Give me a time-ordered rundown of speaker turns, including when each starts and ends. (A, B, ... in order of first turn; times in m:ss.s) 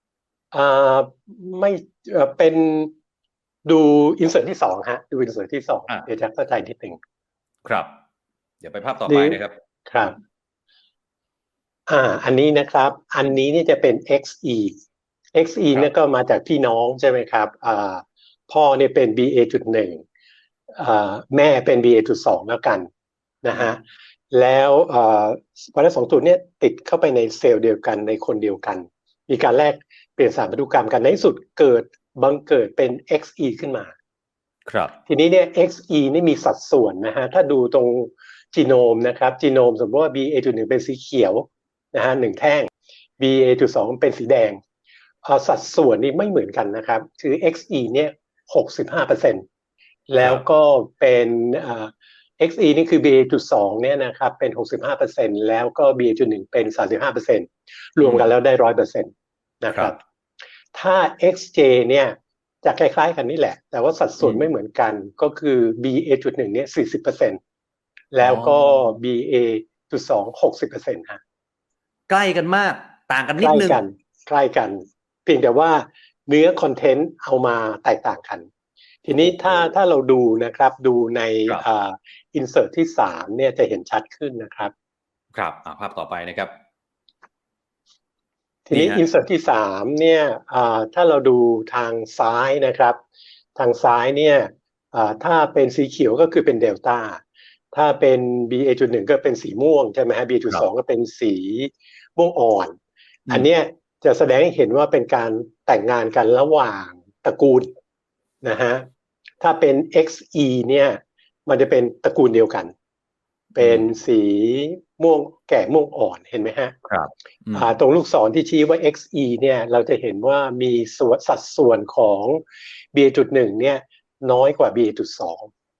0:00.5-0:02.9 A
0:03.6-0:07.0 A
0:07.6-0:07.9 B
0:08.6-0:09.5 B
0:09.1-0:10.2 A
0:11.9-0:14.8 A
0:15.3-0:20.0 A
0:20.7-0:22.9 A
0:23.4-0:33.9 A
0:34.7-0:35.0 B
0:35.1-0:44.6 A
0:45.2-0:49.4 A
0:50.1-0:59.1 A
0:58.0-0:58.3 B
0:59.6-1:00.0 A
1:00.7-1:07.4 A
1:04.2-1:04.5 B
1:08.1-1:11.2 A
1:08.2-1:08.9 B
1:12.1-1:13.8 B
1:13.4-1:18.5 A
1:19.0-1:24.7 A
1:19.2-1:19.7 B
1:25.4-1:26.5 B
1:28.7-1:33.0 A
1:28.7-1:29.0 B
1:33.6-1:42.8 A
1:43.3-1:47.7 A
1:48.4-1:48.9 A
1:49.4-1:52.7 A
1:53.5-1:56.8 A
1:53.6-1:53.9 B
1:56.9-1:57.7 B
1:57.5-2:02.4 A
2:02.9-2:05.5 A